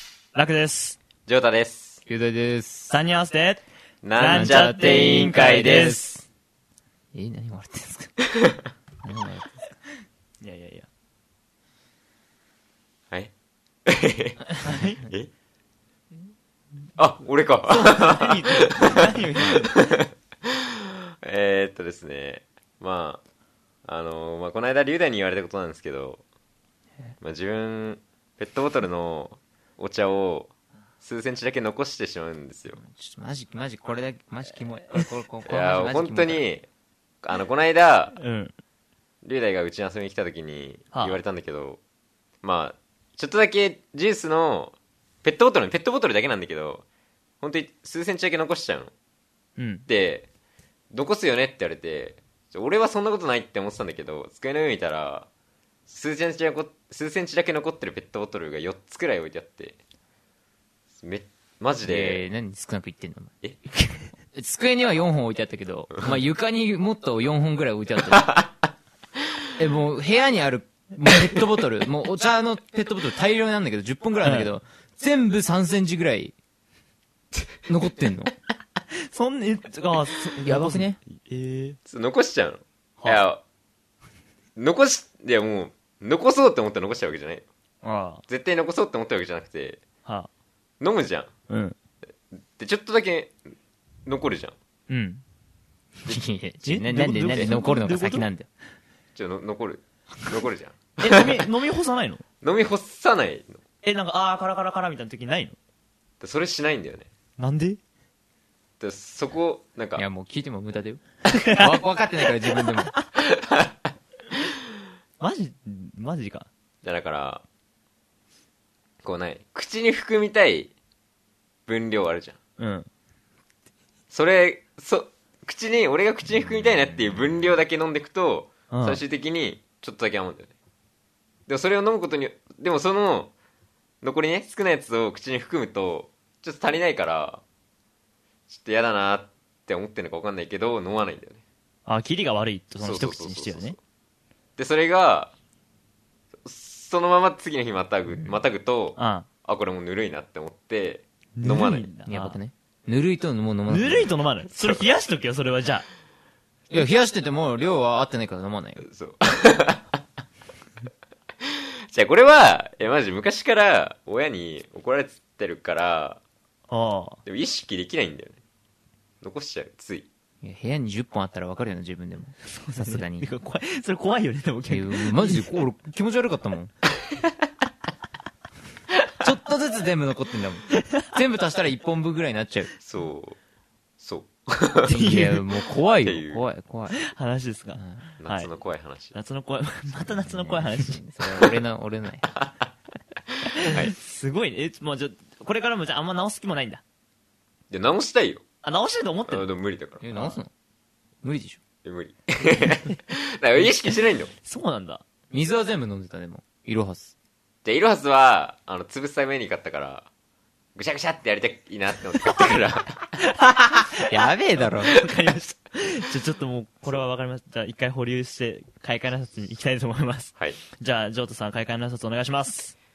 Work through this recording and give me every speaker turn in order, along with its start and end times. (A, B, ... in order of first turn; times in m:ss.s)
0:00.3-0:01.0 A
0:01.3-0:02.0 B
0:02.1-0:03.0 C
0:02.9-0:03.6 A
0:04.0-0:05.7 B
0:04.2-0:06.2 A
0:04.2-0:06.0 C
0:07.1-0:08.2 C
0:09.0-0:09.8 C
0:10.4-0:10.9 A
0:13.9-0:15.3 B
0:14.6-0:15.0 A
0:17.0-0:23.2 B
0:17.7-0:19.7 A
0:23.8-0:26.2 B
0:27.2-0:32.8 B
0:32.8-0:36.4 C
0:35.5-0:36.7 B
0:37.2-0:38.2 B
0:38.2-0:38.5 A
0:39.2-0:41.8 B
0:40.9-0:41.2 A
0:42.4-0:46.8 B
0:47.4-0:48.9 B
0:49.6-0:49.9 A
0:49.9-0:50.3 B
0:50.9-0:55.3 B
0:55.9-0:59.8 B
1:01.0-1:02.2 B
1:01.8-1:03.4 C
1:04.3-1:08.3 C
1:08.1-1:08.4 B
1:09.6-1:16.4 C
1:14.2-1:14.5 A
1:17.7-1:18.3 C
1:19.0-1:21.8 A
1:20.4-1:21.0 C
1:21.9-1:23.4 B
1:24.6-1:27.5 B
1:27.8-1:28.2 A
1:28.3-1:29.8 B
1:30.8-1:31.3 B
1:31.5-1:31.8 A
1:32.4-1:33.4 B
1:34.1-1:34.6 B
1:34.9-1:35.2 A
1:36.0-1:38.5 C
1:36.6-1:38.3 A
1:39.2-1:41.5 B
1:41.0-1:42.2 A
1:42.4-1:43.6 B
1:43.8-1:45.6 A
1:46.2-1:47.1 B
1:47.4-1:47.8 A
1:48.8-1:50.0 B
1:50.0-1:53.0 C
1:51.3-1:51.7 A
1:52.6-1:53.0 A
1:53.2-1:53.7 B
1:55.2-1:56.5 A
1:56.8-1:57.4 B
1:59.0-2:00.7 B
2:01.7-2:02.4 B
2:02.6-2:02.9 A
2:04.1-2:10.5 B
2:08.7-2:09.0 A
2:11.5-2:13.3 B
2:14.0-2:17.4 B
2:18.5-2:21.4 B
2:21.9-2:23.8 A
2:22.8-2:23.8 B
2:24.6-2:25.3 B
2:26.4-2:31.9 B
2:29.0-2:29.3 A
2:31.4-2:32.4 A
2:32.1-2:34.1 C
2:33.7-2:35.9 A
2:36.7-2:38.9 C
2:38.8-2:40.0 B
2:41.4-2:46.2 B
2:46.7-2:47.2 A
2:47.3-2:48.4 B
2:49.2-2:50.1 B
2:50.4-2:53.3 C
2:52.5-2:55.5 A
2:54.7-2:56.7 C
2:59.2-3:02.7 C
3:02.8-3:03.4 B
3:04.0-3:05.1 B
3:04.9-3:07.0 C
3:04.9-3:05.4 A
3:05.9-3:06.5 B
3:06.9-3:08.5 A
3:08.2-3:09.2 B
3:09.1-3:11.0 A
3:10.0-3:12.3 C
3:13.5-3:16.8 A
3:13.6-3:13.9 B
3:17.7-3:18.4 B
3:18.6-3:19.5 A
3:19.3-3:20.2 B
3:20.0-3:20.5 C
3:21.2-3:21.6 C
3:21.8-3:24.3 B
3:24.4-3:25.0 A
3:25.3-3:27.1 C
3:27.6-3:30.1 B
3:30.8-3:33.1 B
3:33.2-3:42.8 A
3:34.1-3:35.1 C